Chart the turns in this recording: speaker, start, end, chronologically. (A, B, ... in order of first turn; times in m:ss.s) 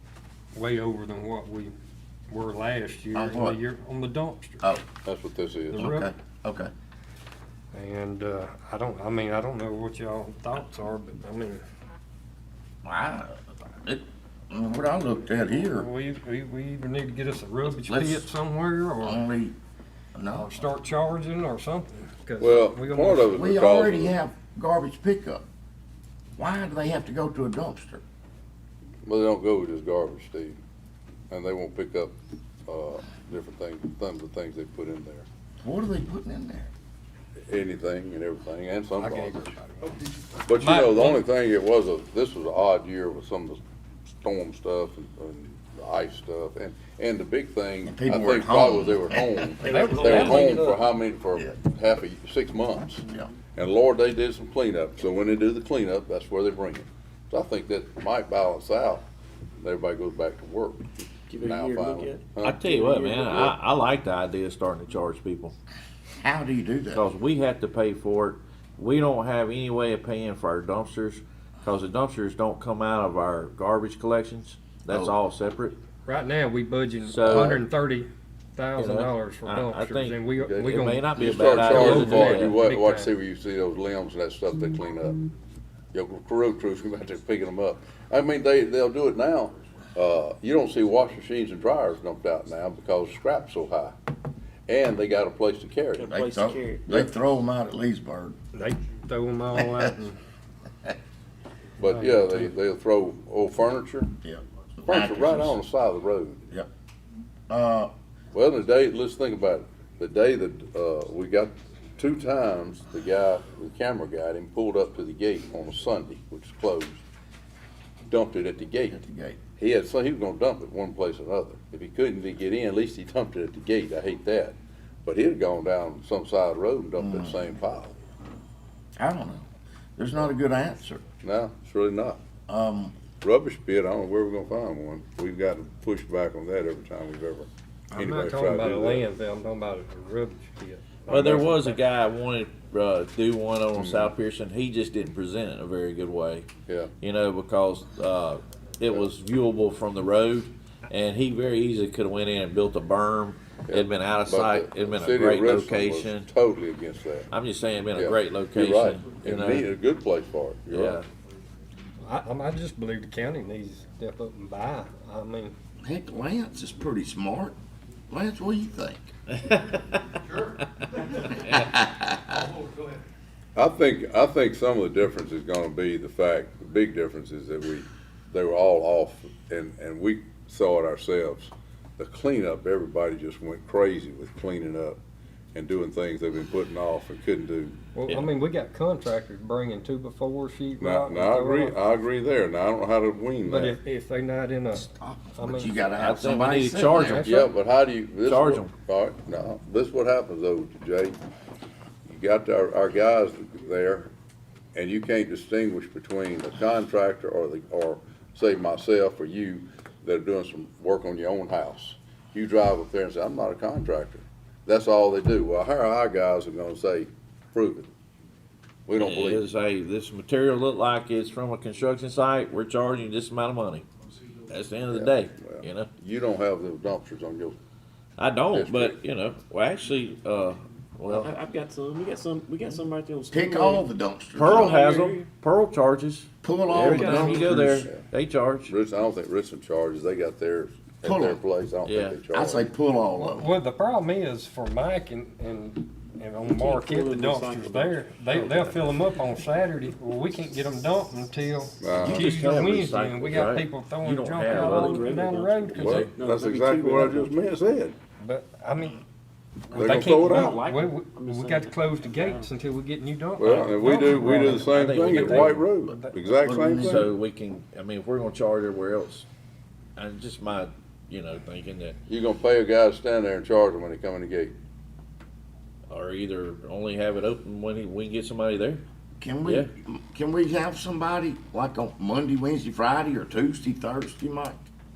0:00.5-0:01.7 A
0:02.3-0:04.6 A
0:03.1-0:03.6 B
0:05.0-0:05.9 C
0:05.7-0:06.1 A
0:05.8-0:06.7 B
0:07.7-0:11.6 A
0:12.8-0:15.9 B
0:15.6-0:19.2 A
0:17.7-0:18.3 B
0:19.0-0:19.6 B
0:20.2-0:20.5 B
0:20.3-0:23.4 A
0:22.4-0:24.2 C
0:23.3-0:25.4 B
0:26.4-0:28.0 B
0:29.0-0:30.6 C
0:31.3-0:32.1 C
0:32.7-0:35.3 C
0:35.6-0:36.7 B
0:37.5-0:39.5 C
0:39.0-0:40.0 A
0:40.4-0:43.6 C
0:40.5-0:41.2 A
0:44.2-0:59.0 C
0:47.8-0:50.4 B
0:49.6-0:50.9 A
0:59.6-1:02.7 C
1:01.3-1:03.5 D
1:02.4-1:05.6 E
1:06.2-1:07.0 B
1:06.9-1:15.8 E
1:14.9-1:15.2 B
1:16.0-1:23.1 A
1:17.1-1:17.6 E
1:18.8-1:22.6 E
1:20.4-1:25.2 C
1:25.9-1:34.0 C
1:34.7-1:36.2 C
1:36.0-1:37.0 D
1:36.1-1:38.4 B
1:38.5-1:40.2 A
1:39.6-1:39.9 B
1:41.8-1:42.5 A
1:41.8-1:44.1 C
1:44.2-1:45.6 B
1:44.8-1:46.4 C
1:47.5-1:47.9 B
1:48.3-1:57.0 C
1:58.1-1:59.0 C
1:58.9-1:59.4 B
1:59.5-2:08.0 C
2:07.0-2:07.4 B
2:09.0-2:11.0 B
2:11.2-2:12.2 C
2:12.5-2:13.0 B
2:13.2-2:19.0 C
2:17.9-2:21.8 A
2:21.1-2:36.3 E
2:23.8-2:24.1 C
2:26.7-2:26.9 C
2:33.7-2:37.3 C
2:37.3-2:39.7 E
2:37.9-2:41.0 C
2:40.7-2:41.1 E
2:42.0-2:45.6 A
2:45.8-2:47.6 B
2:48.1-2:49.1 B
2:49.4-2:50.0 E
2:51.1-2:51.7 E
2:51.5-2:52.5 B
2:53.6-3:05.0 C
3:05.6-3:07.8 C
3:08.0-3:11.8 A
3:10.8-3:13.8 C
3:13.4-3:15.9 A
3:14.8-3:17.3 B
3:16.0-3:17.4 E
3:17.0-3:17.5 A
3:17.2-3:21.2 C
3:18.2-3:18.7 E
3:22.1-3:24.1 C
3:24.8-3:37.9 C
3:38.9-3:39.4 C
3:39.0-3:43.9 E
3:44.5-3:45.9 E
3:44.9-3:47.6 C
3:48.2-3:51.3 E
3:48.5-3:49.0 C
3:51.1-3:53.8 D
3:53.3-3:54.8 B
3:54.4-3:58.7 E
3:54.5-3:55.3 D
3:56.4-3:57.9 B
3:56.8-3:57.6 D
3:57.6-3:58.0 C
3:58.7-4:02.6 C
4:01.0-4:01.4 B
4:01.8-4:02.2 E
4:02.3-4:03.6 B
4:03.1-4:16.1 A
4:06.5-4:08.8 D
4:11.8-4:12.3 C
4:11.9-4:15.2 E
4:14.5-4:17.3 D
4:15.7-4:18.0 C
4:15.8-4:16.2 E
4:18.2-4:19.0 A
4:19.7-4:26.2 A
4:19.7-4:20.6 C
4:19.9-4:22.5 D
4:23.4-4:27.1 C
4:24.2-4:25.7 E
4:26.4-4:27.1 B
4:26.8-4:29.3 E
4:30.0-4:32.0 E
4:32.1-4:34.6 C
4:35.9-4:38.8 E
4:39.2-4:44.6 B